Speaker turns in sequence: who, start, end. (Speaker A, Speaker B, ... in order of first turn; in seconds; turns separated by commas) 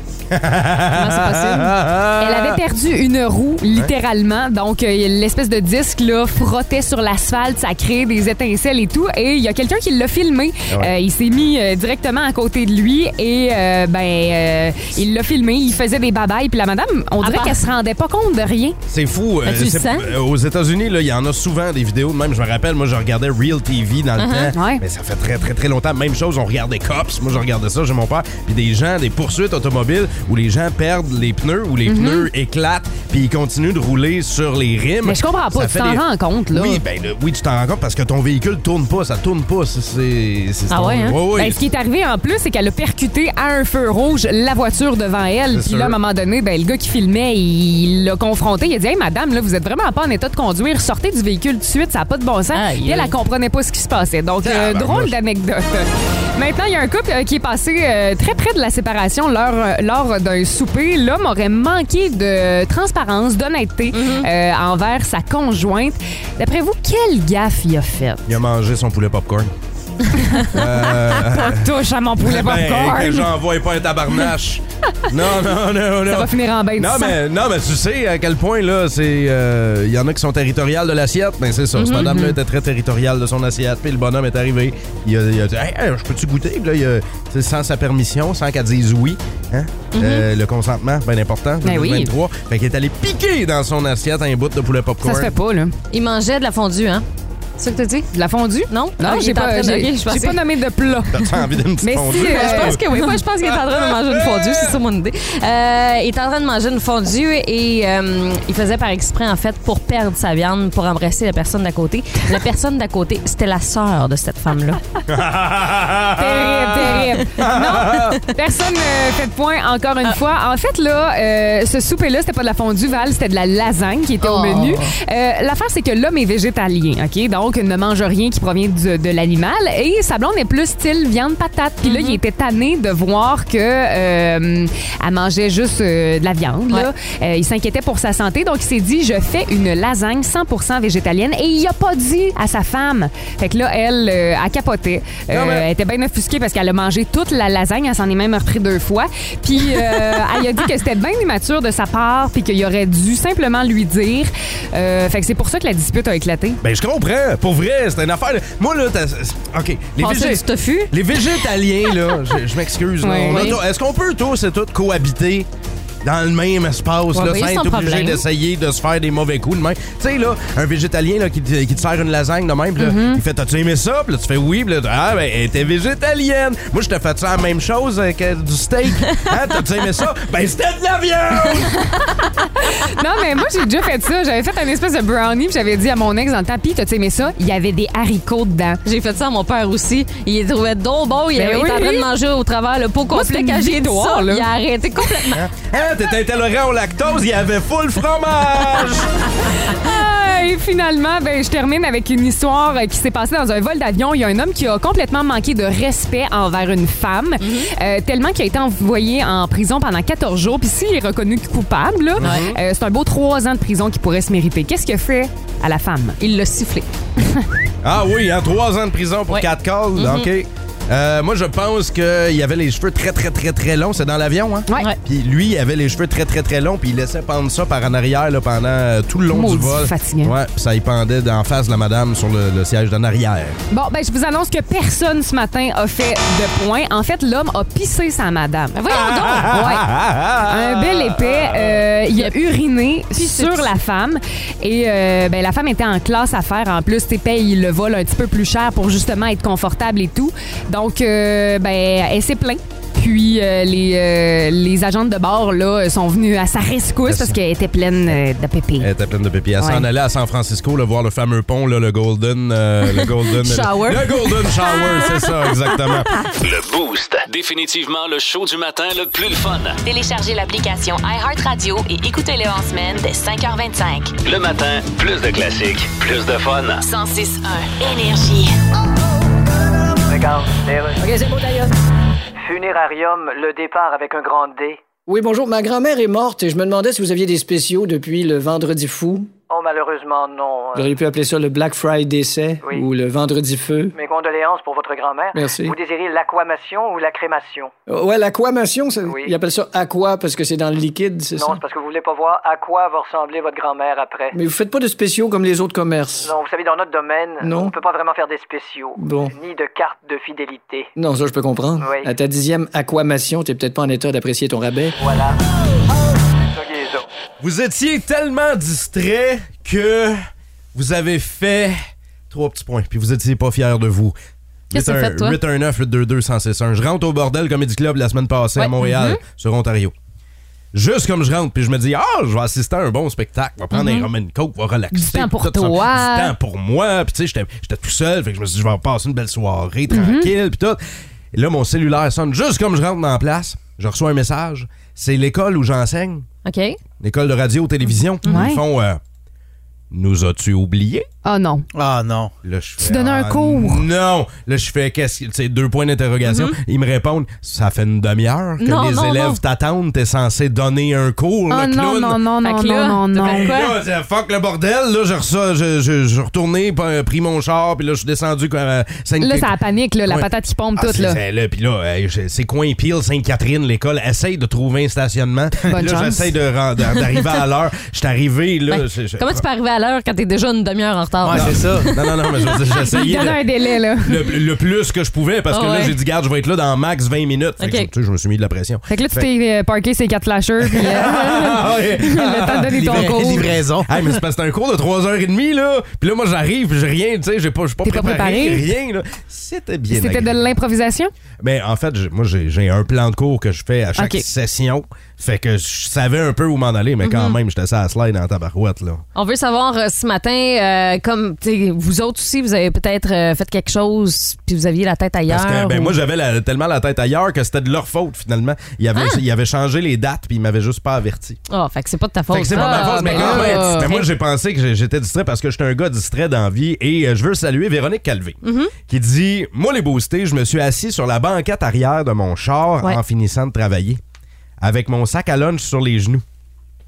Speaker A: 0.3-2.6, Speaker B: 0.9-1.7, Speaker C: 2.2-18.8, Speaker B: 17.2-17.6, Speaker A: 18.9-41.6, Speaker B: 19.4-20.1, Speaker B: 24.2-24.5, Speaker C: 24.5-24.8, Speaker C: 31.9-32.3, Speaker C: 35.0-36.8, Speaker B: 40.7-41.2, Speaker C: 41.3-68.2, Speaker A: 45.5-46.0, Speaker B: 52.5-53.1, Speaker A: 54.4-55.1, Speaker B: 63.9-64.3, Speaker A: 68.3-69.5, Speaker C: 70.1-70.7, Speaker A: 70.5-95.3, Speaker C: 71.2-73.3, Speaker C: 76.1-77.2, Speaker B: 81.8-82.3, Speaker C: 82.0-82.3, Speaker B: 89.9-90.2, Speaker C: 91.6-92.1, Speaker C: 95.0-95.7, Speaker B: 95.9-97.0, Speaker B: 97.6-98.1, Speaker C: 98.1-101.3, Speaker B: 98.7-100.4, Speaker A: 101.1-102.8, Speaker C: 101.8-103.1, Speaker B: 102.1-114.8, Speaker A: 103.4-104.7, Speaker A: 115.1-118.2, Speaker C: 116.2-156.6, Speaker B: 124.2-124.9, Speaker B: 131.8-132.2, Speaker A: 145.3-145.7, Speaker B: 149.7-150.2, Speaker A: 156.6-165.5, Speaker B: 160.0-160.9, Speaker C: 163.0-163.5, Speaker B: 163.3-163.6, Speaker A: 166.0-181.8, Speaker B: 167.1-168.2, Speaker C: 172.8-173.2, Speaker C: 182.6-188.8, Speaker B: 188.8-195.4, Speaker C: 191.3-192.1, Speaker C: 193.1-194.4, Speaker A: 195.3-199.1, Speaker C: 199.6-216.2, Speaker B: 207.4-207.7, Speaker A: 212.2-212.6, Speaker B: 212.2-212.5, Speaker B: 216.2-216.9, Speaker A: 217.8-233.6, Speaker B: 219.3-220.3, Speaker C: 229.3-230.3, Speaker C: 233.7-239.9, Speaker B: 238.7-239.6, Speaker A: 238.9-241.8, Speaker C: 240.4-258.9, Speaker B: 243.1-243.7, Speaker A: 257.1-257.4, Speaker A: 258.8-266.1, Speaker C: 259.6-259.9, Speaker B: 263.0-265.3, Speaker D: 266.3-269.8, Speaker E: 269.8-274.1, Speaker D: 274.2-276.8, Speaker E: 276.8-278.5, Speaker F: 280.1-281.7, Speaker F: 282.4-284.8, Speaker G: 285.1-289.3, Speaker F: 289.5-290.9, Speaker G: 290.7-293.9, Speaker F: 293.9-297.7, Speaker G: 295.3-295.7, Speaker G: 297.9-301.6, Speaker F: 299.1-299.3, Speaker F: 301.3-304.4, Speaker G: 304.3-306.3, Speaker F: 306.2-310.9, Speaker G: 307.4-307.8, Speaker G: 309.0-309.3, Speaker G: 310.9-314.9, Speaker F: 311.8-312.1, Speaker F: 315.0-315.4, Speaker F: 316.5-317.1, Speaker A: 317.4-320.2, Speaker A: 320.7-321.8, Speaker A: 322.3-324.1, Speaker A: 324.7-329.9, Speaker B: 324.7-325.4, Speaker C: 328.6-329.2, Speaker A: 330.7-340.8, Speaker C: 333.7-334.1, Speaker C: 334.9-336.3, Speaker C: 339.9-340.3, Speaker A: 341.3-346.2, Speaker B: 346.4-346.8, Speaker A: 347.0-349.0, Speaker C: 348.2-348.6, Speaker A: 349.9-351.1, Speaker C: 351.2-351.6, Speaker H: 351.7-352.3, Speaker A: 352.4-362.2, Speaker C: 352.8-353.8, Speaker B: 356.2-356.5, Speaker B: 358.6-359.4, Speaker C: 361.5-363.6, Speaker B: 362.4-363.8, Speaker A: 363.2-369.5, Speaker C: 369.2-371.2, Speaker A: 370.1-379.4, Speaker C: 375.6-376.3, Speaker B: 378.7-382.9, Speaker H: 381.2-381.9, Speaker A: 381.3-383.4, Speaker C: 382.9-384.3, Speaker A: 384.0-389.3, Speaker B: 385.5-385.9, Speaker B: 387.6-387.9, Speaker C: 388.9-393.5, Speaker A: 390.7-400.4, Speaker H: 392.8-393.9, Speaker C: 397.8-398.6, Speaker C: 399.9-401.1, Speaker A: 401.4-409.0, Speaker C: 403.9-404.2, Speaker B: 407.0-407.4, Speaker B: 409.1-416.0, Speaker A: 415.3-421.4, Speaker B: 418.9-419.2, Speaker B: 421.5-424.1, Speaker A: 422.3-434.0, Speaker C: 422.6-423.6, Speaker B: 428.4-428.7, Speaker A: 434.6-436.2